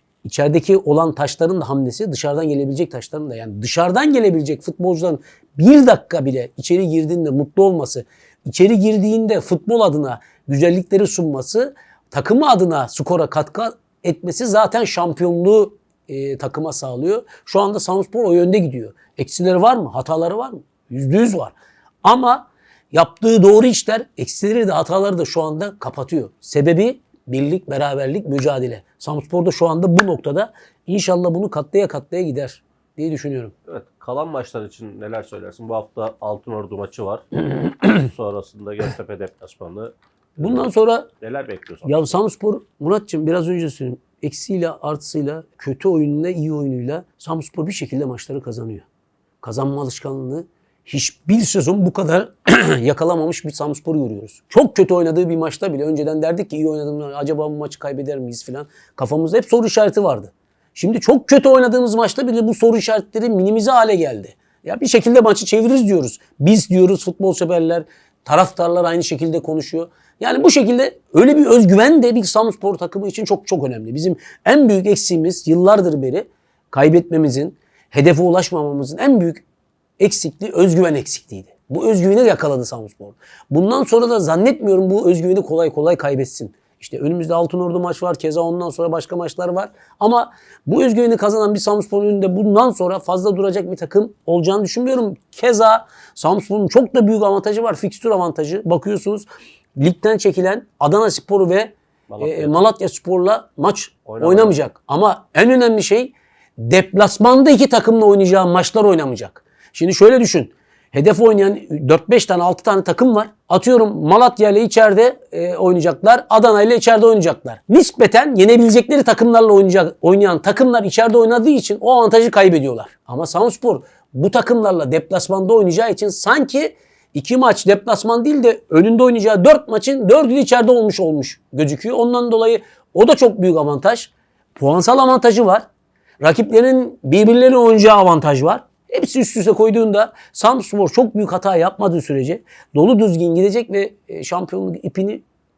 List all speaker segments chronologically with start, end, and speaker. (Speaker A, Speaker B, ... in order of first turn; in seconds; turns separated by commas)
Speaker A: 0.2-33.5, Speaker B: 33.7-40.7, Speaker A: 40.4-41.1, Speaker B: 41.2-42.2, Speaker A: 41.9-48.9, Speaker A: 49.4-79.4, Speaker A: 80.0-135.7, Speaker B: 102.1-102.5, Speaker B: 104.1-104.6, Speaker A: 136.2-145.2